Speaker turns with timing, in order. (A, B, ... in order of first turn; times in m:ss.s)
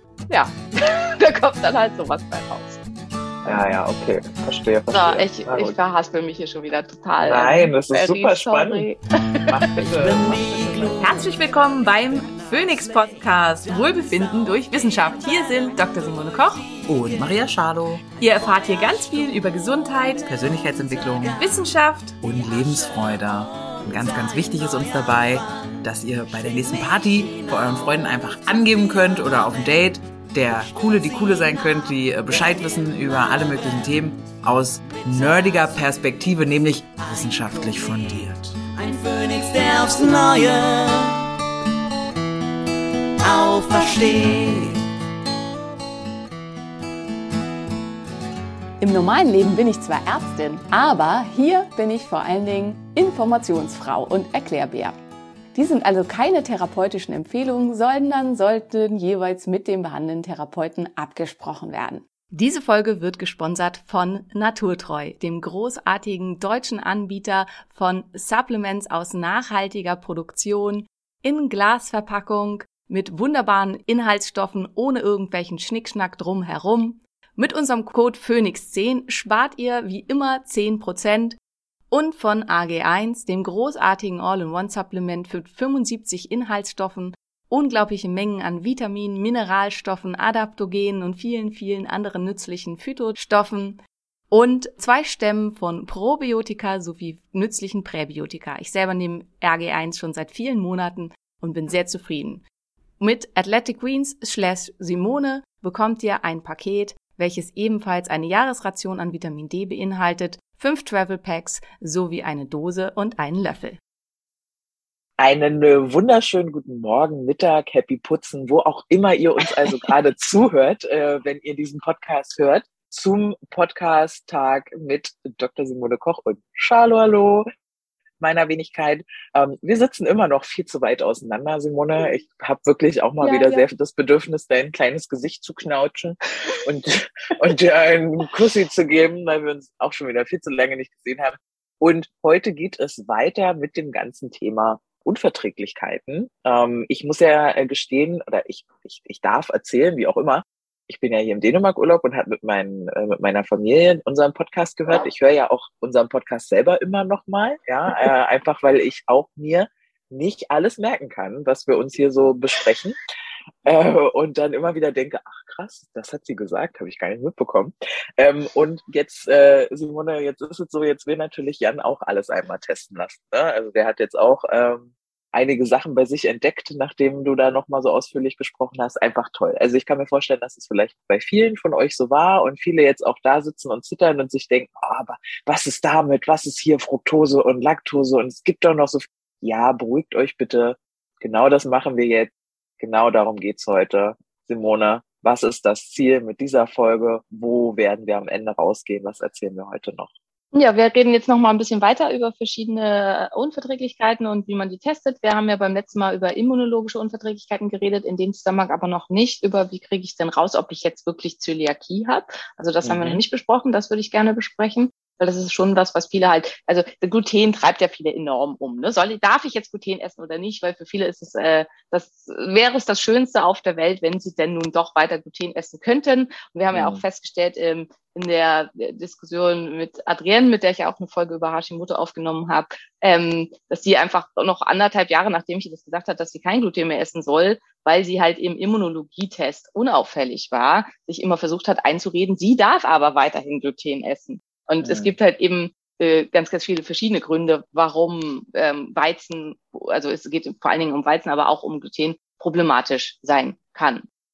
0:00.3-0:02.8 A
0:03.4-0:05.8 B
0:04.9-0:09.8 A
0:07.2-0:08.9 B
0:09.5-0:11.2 B
0:09.8-0:21.6 C
0:11.0-0:16.7 A
0:16.9-0:18.0 B
0:18.2-0:20.3 A
0:20.2-0:21.4 B
0:21.4-0:22.2 A
0:22.2-0:38.5 B
0:22.2-0:41.2 C
0:43.2-0:44.8 C
0:48.8-0:55.0 A
0:55.5-1:21.4 A
1:21.9-1:33.8 A
1:34.3-1:42.4 A
1:43.0-1:53.8 A
1:55.2-2:07.5 B
2:08.2-2:43.0 B
2:13.2-2:13.7 A
2:43.6-3:20.1 B
3:20.5-4:14.0 A
3:32.8-3:33.2 B
3:46.7-3:47.0 B
4:04.8-4:05.1 B